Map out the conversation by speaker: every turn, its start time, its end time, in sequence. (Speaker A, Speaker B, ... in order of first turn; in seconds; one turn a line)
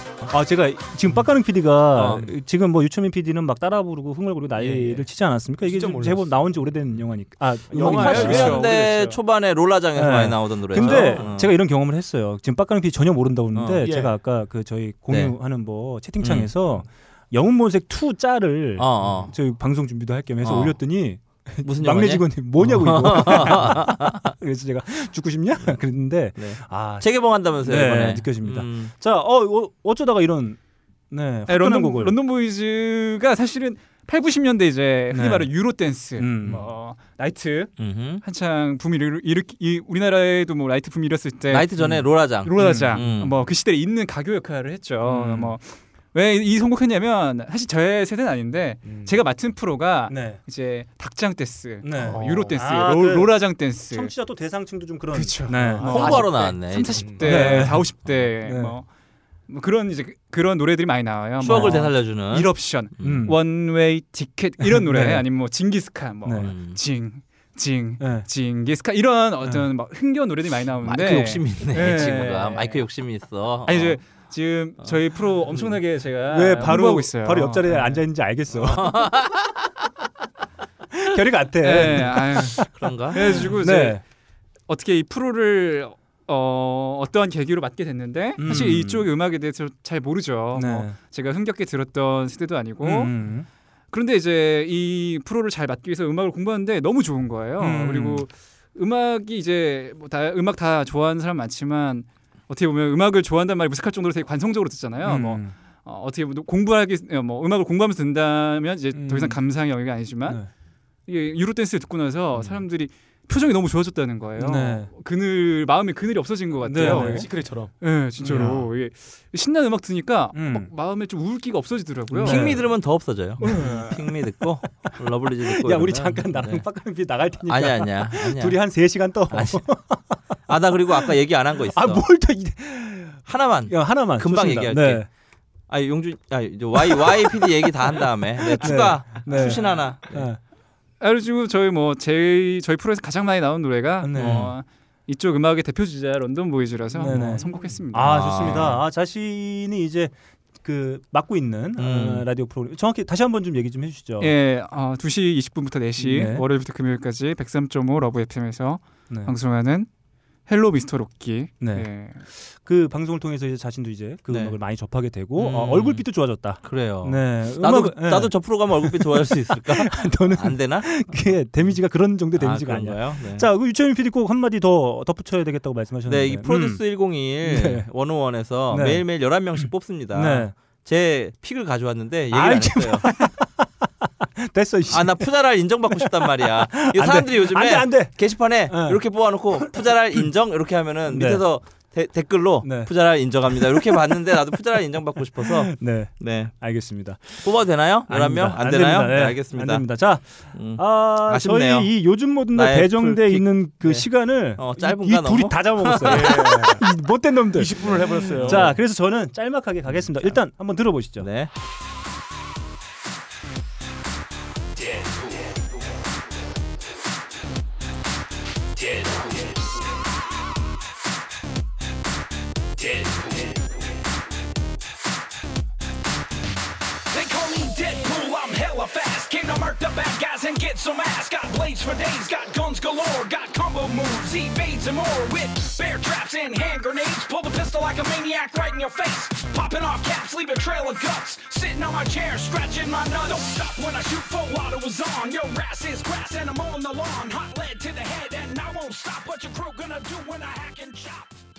Speaker A: 0.3-8.6
Speaker B: 1.9-2.2
Speaker C: 2.0-2.3
Speaker C: 4.5-5.0
Speaker C: 5.6-6.4
Speaker C: 7.7-8.7
Speaker B: 7.8-11.5
Speaker D: 7.9-9.2
Speaker A: 9.9-30.6
Speaker C: 10.8-11.2
Speaker B: 13.5-13.8
Speaker C: 13.8-14.1
Speaker B: 15.1-15.3
Speaker B: 16.2-16.5
Speaker B: 18.8-19.3
Speaker B: 20.4-20.8
Speaker B: 21.6-24.3
Speaker B: 26.4-28.9
Speaker A: 31.1-32.1
Speaker D: 31.5-37.7
Speaker A: 35.1-35.5
Speaker A: 36.1-36.6
Speaker B: 37.8-38.2
Speaker D: 38.2-41.7
Speaker B: 41.5-43.3
Speaker D: 42.3-54.1
Speaker A: 42.5-43.0
Speaker A: 45.0-45.5
Speaker C: 48.8-49.1
Speaker A: 50.1-50.4
Speaker A: 51.8-56.3
Speaker C: 52.0-52.6
Speaker D: 55.1-58.9
Speaker B: 55.8-57.4
Speaker C: 56.0-56.4
Speaker C: 57.0-57.5
Speaker A: 57.2-58.8
Speaker D: 59.5-72.8
Speaker A: 61.4-61.9
Speaker B: 61.4-63.3
Speaker A: 63.0-63.4
Speaker A: 64.6-65.2
Speaker A: 66.2-66.5
Speaker B: 66.4-66.8
Speaker A: 68.0-68.3
Speaker B: 70.8-74.0
Speaker D: 73.6-78.0
Speaker A: 76.3-79.2
Speaker B: 78.7-79.4
Speaker A: 80.9-84.0
Speaker D: 81.6-84.0
Speaker B: 82.7-83.2
Speaker D: 84.7-93.1
Speaker A: 88.4-89.1
Speaker A: 90.5-90.9
Speaker A: 92.8-93.5
Speaker D: 93.9-110.4
Speaker A: 97.6-98.2
Speaker A: 105.0-105.5
Speaker A: 108.9-109.4
Speaker D: 111.0-117.3
Speaker A: 114.4-114.9
Speaker A: 116.6-117.3
Speaker C: 116.8-117.7
Speaker D: 117.8-122.6
Speaker A: 118.2-118.7
Speaker C: 118.3-118.6
Speaker A: 120.3-120.7
Speaker A: 122.1-122.7
Speaker B: 122.2-126.6
Speaker A: 123.4-124.1
Speaker D: 123.4-123.8
Speaker A: 124.6-124.9
Speaker A: 125.5-130.2
Speaker B: 127.5-128.6
Speaker B: 129.3-129.6
Speaker B: 130.5-132.0
Speaker A: 131.7-135.1
Speaker B: 133.2-135.1
Speaker B: 135.7-140.3
Speaker A: 136.8-137.5
Speaker A: 138.4-140.4
Speaker D: 141.0-148.5
Speaker A: 144.0-144.5
Speaker B: 144.2-144.5
Speaker A: 147.0-154.3
Speaker C: 147.1-147.8
Speaker B: 148.0-148.8
Speaker B: 151.8-152.3
Speaker D: 154.2-159.9
Speaker A: 156.0-156.4
Speaker D: 160.5-162.2
Speaker A: 161.6-176.8
Speaker B: 164.3-164.6
Speaker B: 165.3-166.0
Speaker B: 166.6-170.9
Speaker B: 172.3-173.5
Speaker B: 176.1-183.1
Speaker A: 177.4-177.9
Speaker A: 178.7-180.5
Speaker A: 182.3-185.3
Speaker B: 184.9-196.5
Speaker A: 185.9-189.0
Speaker A: 189.5-190.3
Speaker A: 191.1-191.4
Speaker A: 192.6-192.9
Speaker A: 193.5-194.2
Speaker A: 195.4-197.5
Speaker B: 197.4-199.8
Speaker A: 198.1-211.3
Speaker B: 200.5-201.9
Speaker B: 202.5-206.5
Speaker C: 206.0-206.8
Speaker C: 207.5-208.8
Speaker B: 208.2-208.7
Speaker B: 211.2-211.5
Speaker E: 227.1-251.4